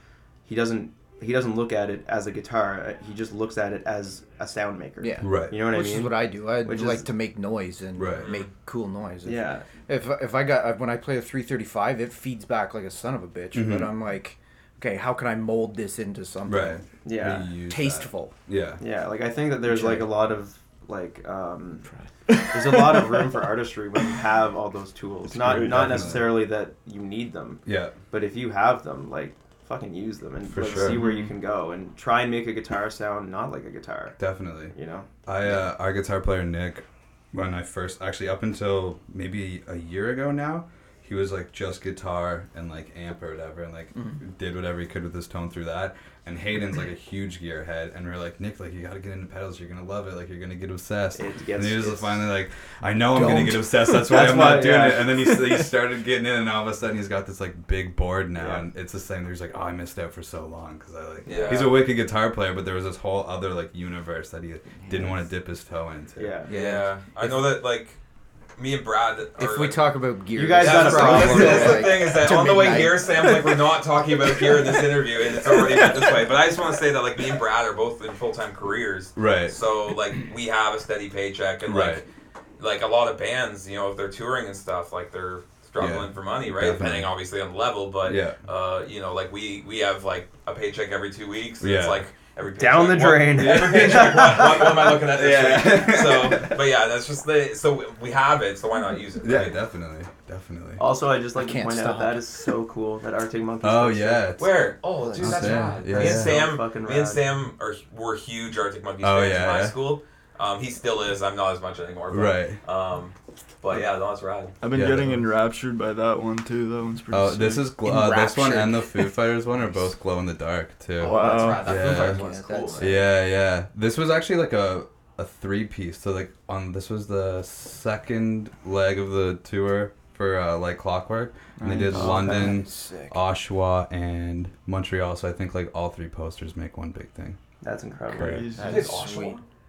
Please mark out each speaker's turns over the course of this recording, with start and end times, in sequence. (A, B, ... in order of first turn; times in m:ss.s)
0:00.5-0:07.1 A
0:05.0-0:17.0 B
0:05.2-0:05.6 C
0:08.0-0:08.3 C
0:08.1-0:08.5 D
0:09.2-0:09.7 A
0:13.5-0:13.9 C
0:16.5-0:18.8 C
0:17.0-0:17.5 A
0:17.6-0:18.4 B
0:18.8-0:21.9 A
0:19.6-0:20.1 B
0:21.8-0:22.1 B
0:22.5-0:34.2 A
0:25.3-0:26.3 C
0:25.5-0:25.8 E
0:27.7-0:28.0 C
0:30.5-0:31.0 C
0:30.9-0:31.3 B
0:34.2-1:06.4 C
0:34.7-0:35.7 A
0:43.9-0:44.2 B
0:51.2-0:52.3 A
0:53.1-0:55.6 B
0:54.0-0:55.1 A
0:58.4-0:58.7 A
1:01.3-1:01.7 A
1:01.3-1:01.7 D
1:04.8-1:05.3 B
1:06.2-1:06.5 A
1:06.5-1:07.0 B
1:06.5-1:08.0 D
1:08.6-1:10.1 D
1:09.4-1:13.7 B
1:10.3-1:11.9 A
1:10.6-1:22.1 D
1:11.1-1:12.0 C
1:14.3-1:14.8 B
1:15.5-1:16.2 B
1:19.2-1:19.6 C
1:21.7-1:22.0 C
1:22.6-1:39.6 D
1:25.8-1:27.1 C
1:28.0-1:28.4 C
1:31.6-1:32.0 C
1:32.6-1:35.0 A
1:33.4-1:36.6 C
1:39.2-1:40.8 C
1:40.8-1:44.4 A
1:41.4-1:42.3 B
1:43.6-1:44.6 C
1:44.4-1:54.6 D
1:45.0-1:47.3 A
1:45.2-1:46.5 C
1:49.0-1:49.8 C
1:52.1-1:52.6 C
1:54.6-1:57.7 E
1:54.7-1:55.3 C
1:57.1-2:02.2 C
1:57.8-1:59.2 B
2:01.0-2:01.8 E
2:01.0-2:03.0 B
2:01.4-2:02.8 A
2:01.4-2:02.9 D
2:02.8-2:17.4 C
2:11.6-2:12.5 E
2:11.8-2:13.2 B
2:17.6-2:19.0 A
2:18.1-2:19.1 E
2:18.6-2:19.4 D
2:18.6-2:19.4 B